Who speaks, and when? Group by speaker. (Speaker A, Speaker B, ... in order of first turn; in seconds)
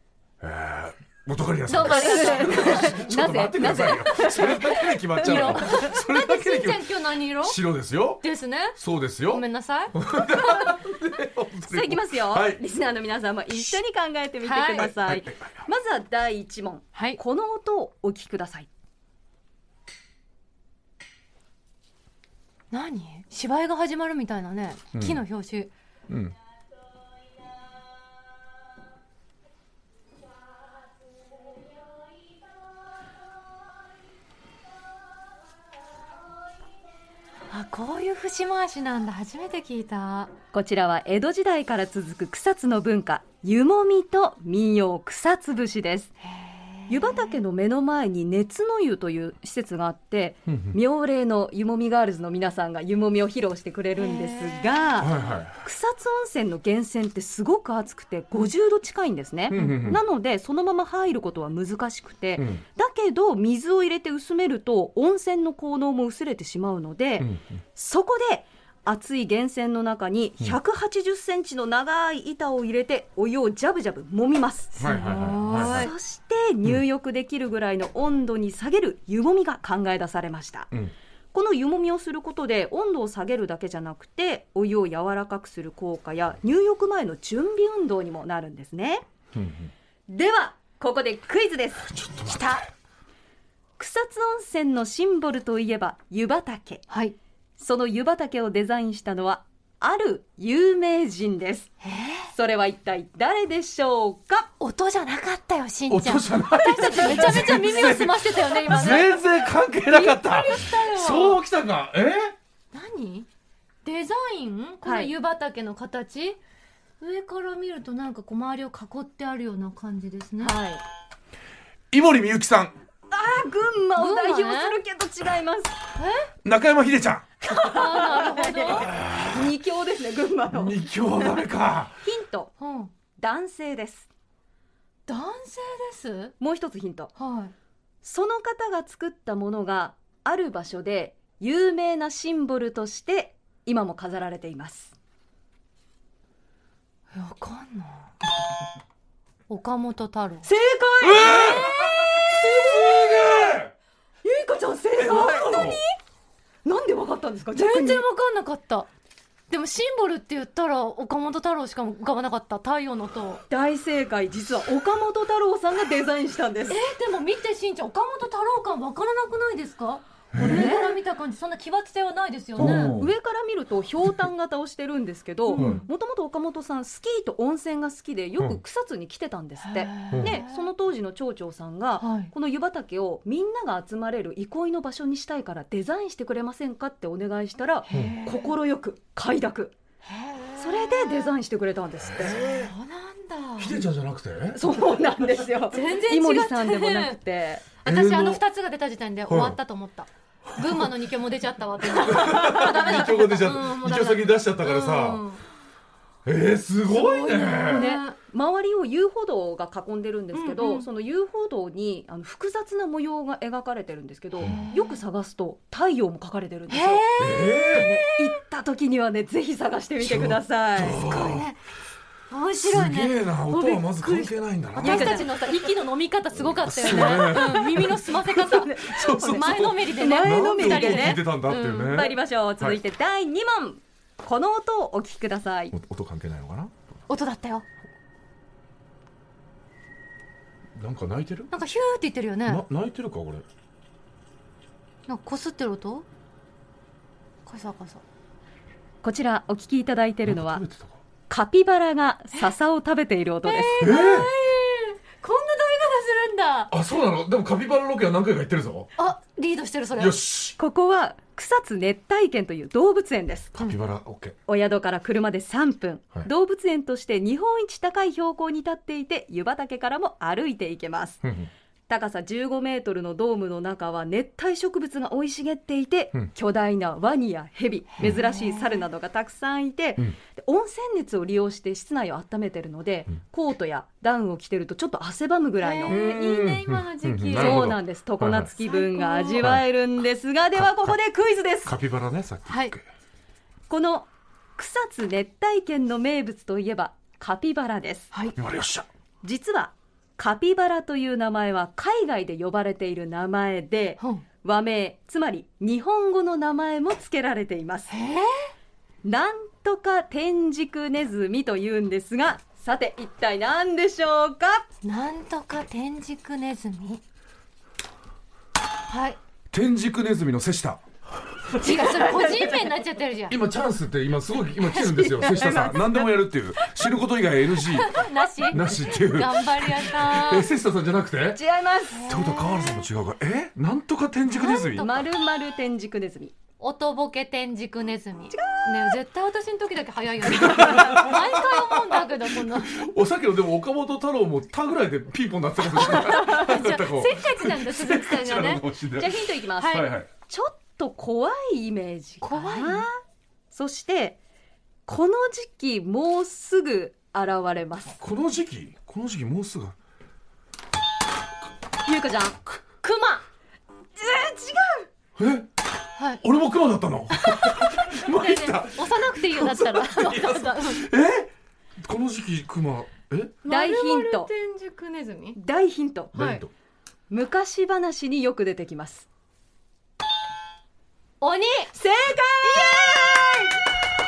Speaker A: 0.4-8.2, 8.8-12.6, 14.9-15.6, 24.9-25.2, 26.1-26.3, 50.5-50.8, 55.0-55.6, 59.5-60.0, 62.4-62.6, 74.8-75.9, 89.3-89.7, 91.9-92.7, 105.9-112.3, 121.9-122.8, 126.4-127.3, 128.8-129.5, 130.5-132.0, 151.0-153.7, 154.9-155.8, 170.3-170.7, 172.6-173.1, 175.5-175.8, 180.1-180.4, 187.9-188.2, 192.1-192.7, 193.6-194.7, 197.8-198.4, 199.3-199.6, 200.5-200.9, 201.9-205.2, 206.2-207.9, 217.2-217.9, 220.0-221.5, 222.6-225.2, 226.4-228.1, 228.8-232.8, 235.7-236.7, 240.7-241.5, 242.4-243.4, 250.2-251.0, 253.8-254.3, 256.7-258.9, 260.0-260.6, 263.5-264.4, 271.2-271.5, 285.9-288.5, 290.6-290.9, 291.6-292.9, 298.4-298.9, 319.5-321.9, 323.3-331.4, 332.1-334.9, 340.2-350.1, 358.0-359.8, 365.1-365.5, 366.2-373.4, 376.1-376.5
Speaker B: 1.7-3.0, 5.2-7.6, 8.2-10.0, 14.4-14.9, 16.9-17.2, 22.7-25.7, 37.5-40.3, 46.4-47.3, 54.0-55.0, 59.5-60.0, 74.8-75.9, 96.9-97.1, 101.8-102.3, 104.6-109.3, 109.9-111.4, 112.7-113.3, 113.8-116.4, 117.0-120.5, 124.0-124.8, 126.0-126.3, 127.5-128.9, 132.6-132.9, 135.1-136.3, 137.2-137.5, 147.1-148.1, 149.5-150.5, 157.5-158.9, 159.5-163.4, 166.7-173.0, 175.5-175.8, 179.6-180.6, 182.0-182.3, 187.9-188.5, 190.1-191.3, 192.2-193.8, 195.7-197.2, 197.8-205.4, 206.9-208.2, 210.3-210.9, 214.4-215.0, 216.7-218.3, 220.9-221.6, 222.3-232.1, 237.1-237.6, 241.5-242.6, 245.1-246.1, 247.4-248.0, 253.4-256.7, 259.0-260.2, 278.0-278.8, 285.6-287.8, 288.6-289.6, 292.5-292.7, 307.9-308.5, 314.8-317.0, 318.9-319.2, 321.6-323.4, 327.6-330.5, 331.9-332.8, 334.3-335.0, 336.6-342.8, 345.7-348.6, 349.6-349.9, 352.2-352.9, 362.8-363.2, 366.0-366.2, 367.1-370.8, 373.4-375.4, 376.1-376.4, 381.2-381.7, 382.5-382.9
Speaker C: 1.7-5.7, 11.7-18.7, 40.5-46.1, 46.9-74.8, 75.6-80.7, 81.3-89.0, 90.1-92.6, 93.8-96.8, 97.6-101.7, 102.3-104.5, 114.8-115.1, 120.4-120.8, 123.1-125.8, 127.4-131.3, 132.0-132.5, 133.2-134.1, 136.4-137.1, 138.0-144.9, 150.4-153.2, 154.2-155.8, 156.6-158.0, 163.5-166.8, 170.4-170.9, 172.6-189.7, 190.6-192.4, 194.6-197.7, 207.7-217.1, 217.7-221.4, 224.8-225.4, 226.8-235.7, 249.0-250.6, 251.3-253.8, 260.6-263.5, 264.5-271.3, 271.9-286.0, 287.3-291.8, 293.7-298.1, 299.2-307.9, 309.0-314.6, 321.6-322.6, 324.7-326.1, 331.3-332.1, 334.6-336.3, 338.3-339.0, 349.0-353.0, 353.5-354.2, 354.9-358.0, 361.8-362.4, 364.0-364.9, 373.4-374.3, 375.3-376.1, 377.1-379.1, 381.7-383.7